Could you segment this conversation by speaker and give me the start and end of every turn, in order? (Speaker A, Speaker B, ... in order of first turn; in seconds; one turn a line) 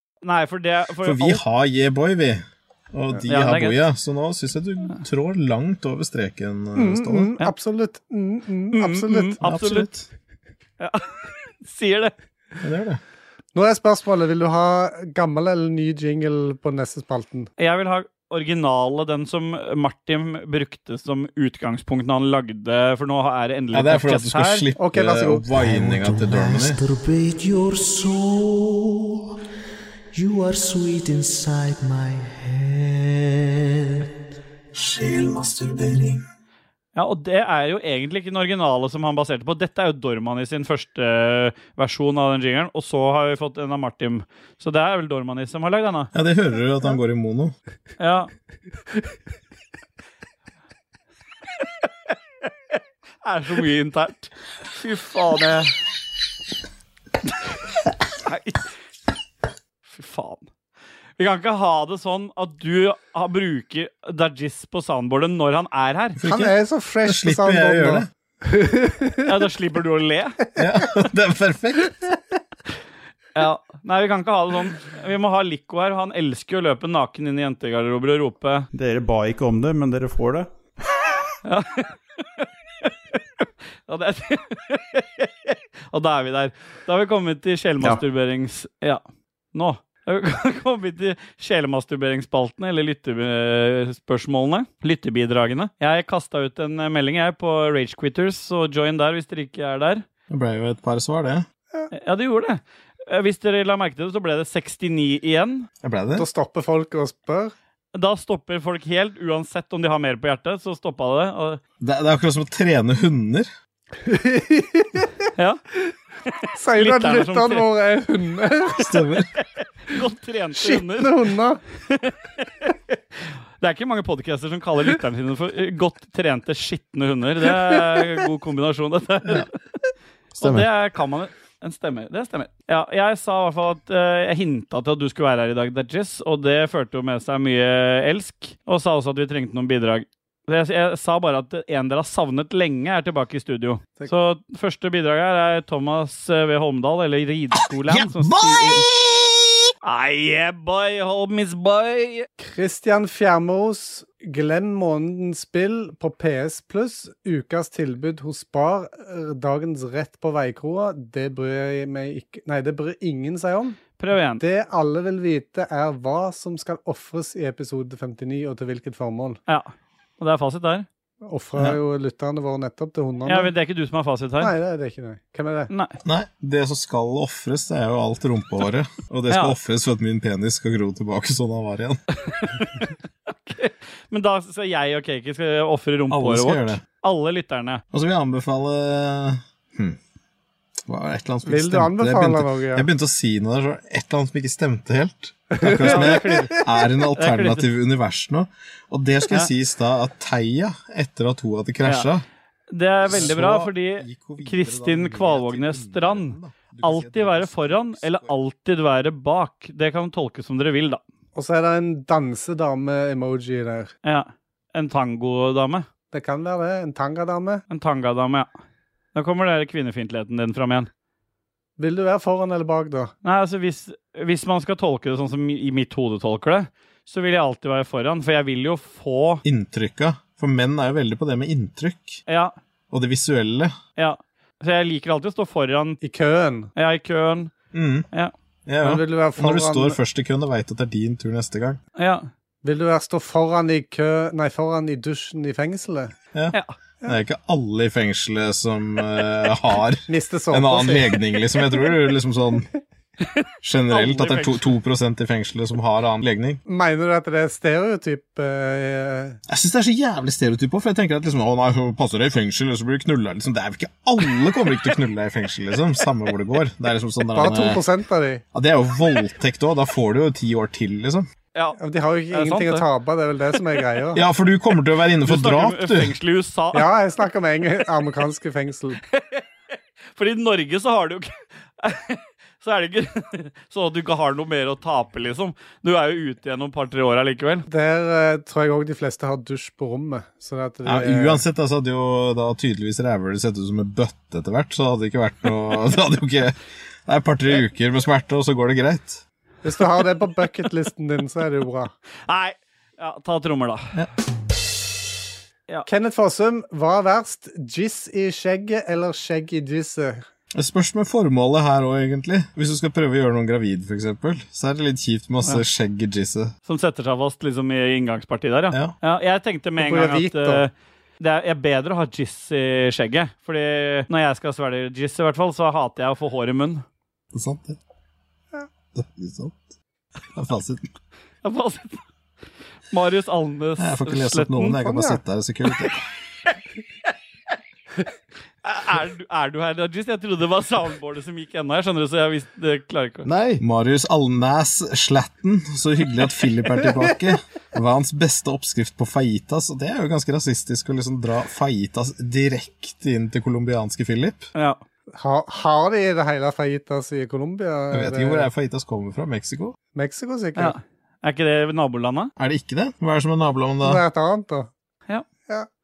Speaker A: 0.2-1.4
Speaker B: 1.0-7.3
Speaker A: 3.3-3.8
Speaker C: 6.7-9.4
Speaker A: 8.7-9.9
Speaker B: 9.4-10.0
Speaker A: 10.8-12.1
Speaker B: 12.6-13.0
Speaker C: 13.5-17.5
Speaker A: 17.6-24.6
Speaker B: 23.7-26.8
Speaker C: 24.8-25.6
Speaker D: 25.9-27.7
Speaker E: 34.8-35.7
Speaker A: 36.9-46.1
Speaker B: 46.1-47.5
Speaker A: 48.0-48.3
Speaker A: 52.4-55.7
Speaker A: 58.2-58.6
Speaker A: 59.9-60.5
Speaker A: 61.2-66.2
Speaker B: 66.2-66.5
Speaker C: 66.2-69.3
Speaker B: 67.0-68.1
Speaker A: 69.2-70.4
Speaker B: 70.5-72.1
Speaker A: 73.3-78.7
Speaker D: 78.7-80.5
Speaker A: 81.4-83.2
Speaker A: 83.9-89.0
Speaker A: 89.5-100.0
Speaker B: 100.3-101.5
Speaker A: 101.9-105.7
Speaker B: 105.8-106.2
Speaker C: 106.1-107.5
Speaker A: 107.9-111.6
Speaker B: 111.8-113.5
Speaker C: 114.0-115.3
Speaker A: 116.2-117.7
Speaker C: 116.5-119.0
Speaker B: 118.7-119.3
Speaker A: 119.4-121.2
Speaker C: 120.5-121.6
Speaker A: 121.9-123.0
Speaker A: 123.6-129.5
Speaker A: 130.4-148.8
Speaker E: 147.5-149.7
Speaker A: 149.8-152.3
Speaker C: 152.4-163.8
Speaker A: 164.0-164.4
Speaker C: 164.4-169.4
Speaker A: 169.5-170.8
Speaker C: 171.2-173.5
Speaker A: 173.3-174.5
Speaker C: 174.4-175.7
Speaker A: 175.7-176.0
Speaker B: 176.0-182.0
Speaker A: 179.3-179.5
Speaker A: 182.3-187.8
Speaker B: 186.1-186.8
Speaker B: 187.9-190.0
Speaker B: 190.9-202.2
Speaker C: 191.4-192.9
Speaker C: 195.5-196.6
Speaker A: 195.8-196.6
Speaker A: 197.2-197.6
Speaker A: 202.7-211.0
Speaker B: 203.1-208.3
Speaker C: 211.3-213.9
Speaker A: 214.0-215.9
Speaker C: 216.1-217.6
Speaker A: 217.7-218.5
Speaker A: 219.1-220.9
Speaker C: 221.8-223.1
Speaker A: 223.2-229.4
Speaker B: 229.4-232.2
Speaker A: 232.3-232.5
Speaker B: 232.9-233.8
Speaker A: 234.0-236.0
Speaker C: 236.0-236.7
Speaker A: 236.8-237.5
Speaker B: 237.7-238.1
Speaker B: 238.7-241.8
Speaker C: 238.8-240.0
Speaker A: 242.0-242.3
Speaker C: 242.6-246.1
Speaker B: 246.3-252.7
Speaker C: 250.1-251.2
Speaker B: 253.6-256.6
Speaker A: 253.9-254.7
Speaker C: 256.6-259.4
Speaker B: 259.5-267.8
Speaker C: 267.3-268.4
Speaker B: 268.5-271.3
Speaker C: 271.8-274.2
Speaker A: 272.3-272.8
Speaker B: 274.1-276.1
Speaker A: 275.2-276.9
Speaker C: 276.7-279.0
Speaker A: 279.1-279.4
Speaker A: 280.1-287.6
Speaker C: 287.7-291.4
Speaker B: 290.8-299.2
Speaker C: 299.6-301.9
Speaker A: 302.3-303.9
Speaker C: 305.9-310.2
Speaker B: 310.5-316.5
Speaker A: 316.7-326.8
Speaker C: 319.8-320.6
Speaker B: 327.3-327.8
Speaker B: 328.9-329.6
Speaker B: 330.3-330.9
Speaker A: 331.4-332.0
Speaker A: 332.9-334.8
Speaker B: 333.8-336.0
Speaker C: 334.8-335.2
Speaker A: 338.6-343.2
Speaker B: 343.3-354.5
Speaker A: 354.5-354.8
Speaker C: 355.1-358.5
Speaker B: 357.9-359.8
Speaker C: 359.9-360.7
Speaker A: 360.6-362.3
Speaker B: 362.4-364.0
Speaker C: 363.8-364.7